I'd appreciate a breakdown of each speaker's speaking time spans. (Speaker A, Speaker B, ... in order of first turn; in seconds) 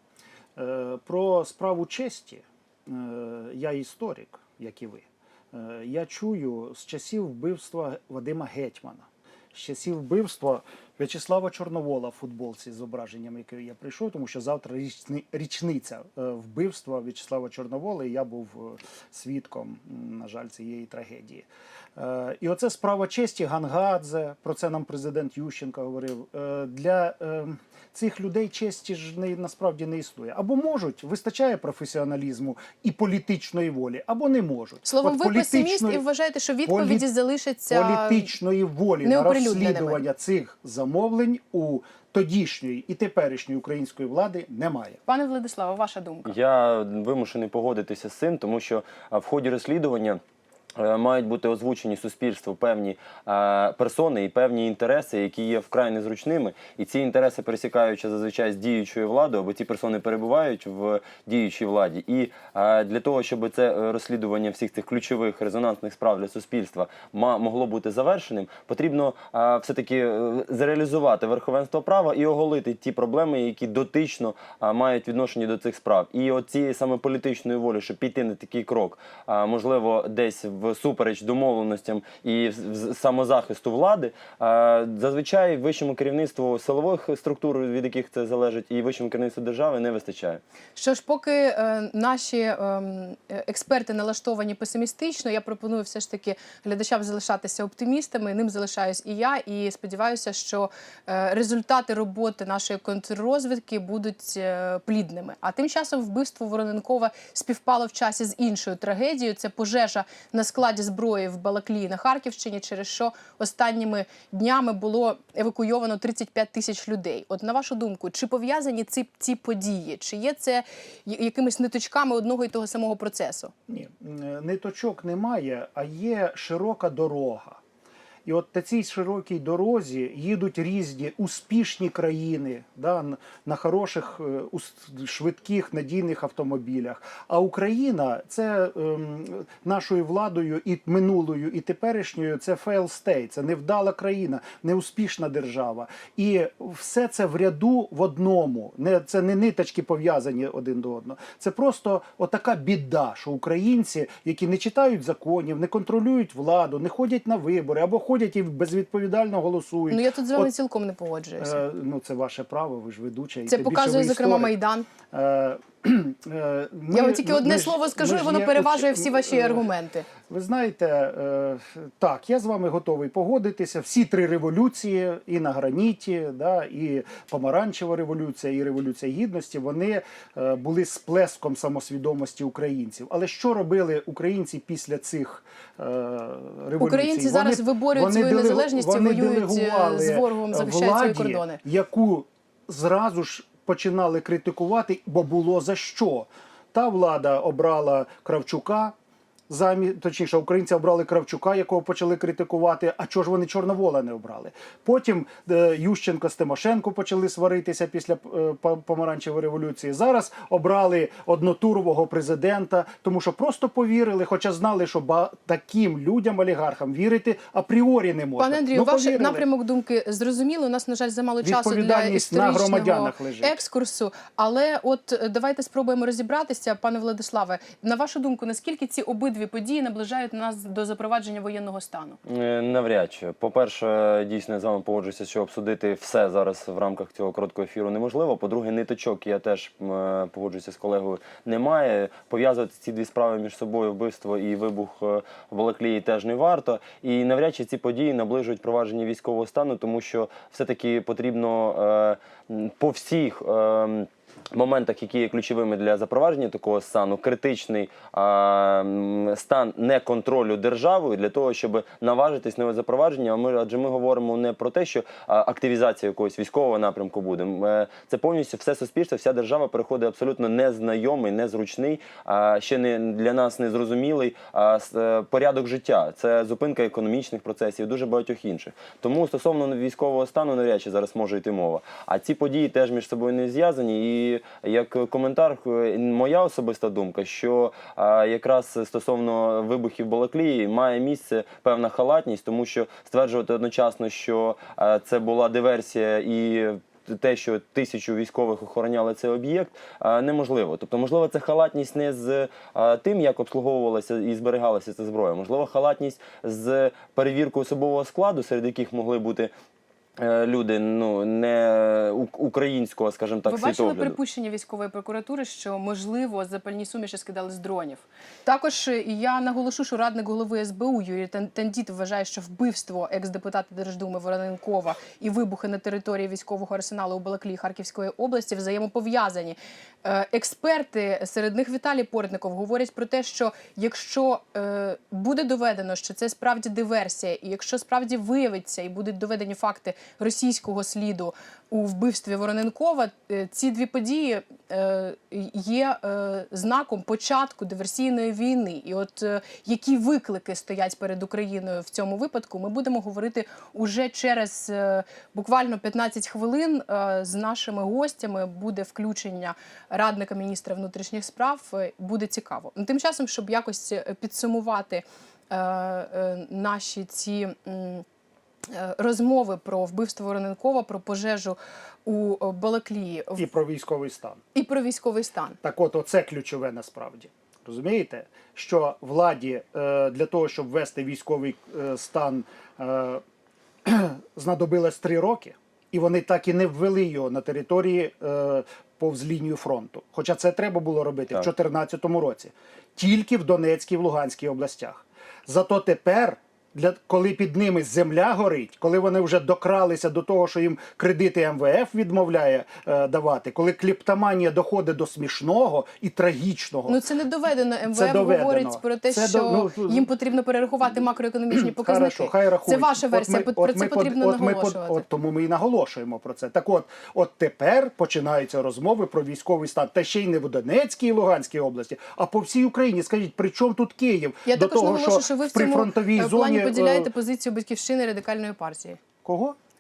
Speaker A: 0.6-36.0, 36.6-37.1, 37.7-45.0, 123.7-127.6, 128.2-160.5, 161.4-164.5, 165.1-169.6, 170.3-198.9, 199.5-219.4, 221.4-223.6, 373.4-374.4, 375.6-383.2, 383.9-407.0, 407.9-410.1, 411.5-427.1, 429.2-429.6
Speaker B: 34.8-38.3, 39.0-40.0, 45.1-46.3, 90.8-123.5, 159.9-161.6, 163.5-164.9, 166.9-170.1, 186.8-191.6, 218.4-232.2, 313.4-368.1, 368.7-373.4, 374.5-375.6, 406.9-415.0, 424.5-429.0
Speaker C: 46.2-50.2, 50.8-90.4, 232.2-309.5, 310.2-314.2